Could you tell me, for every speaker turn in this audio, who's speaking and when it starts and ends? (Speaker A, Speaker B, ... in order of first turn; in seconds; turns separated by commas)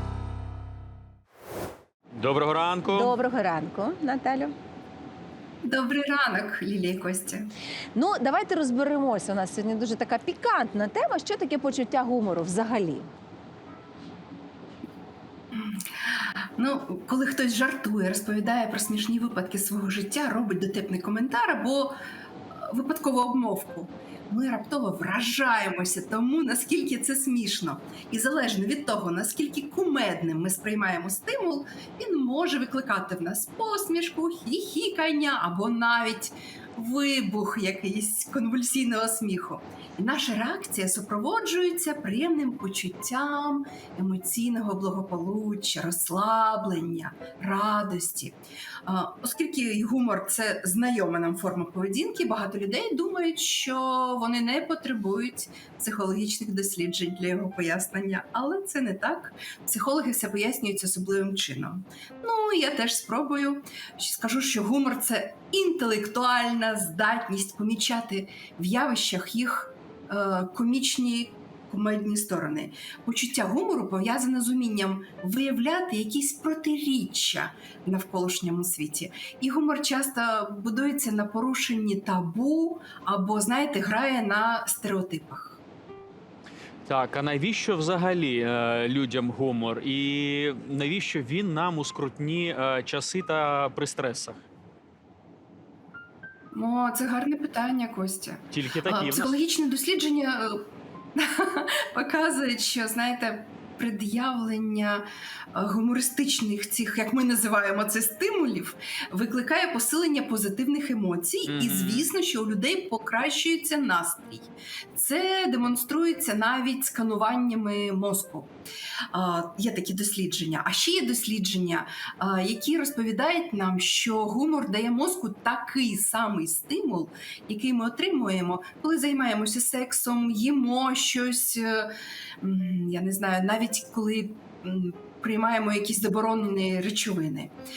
Speaker A: 2.1-3.1, Speaker B: 2.9-4.5, Speaker C: 5.6-7.5, Speaker B: 7.9-13.1, Speaker C: 15.5-15.8, Speaker C: 16.6-21.9, Speaker C: 22.6-85.6, Speaker A: 86.8-94.4, Speaker C: 96.5-118.5, Speaker A: 98.5-99.3, Speaker A: 111.5-112.0, Speaker C: 119.1-137.5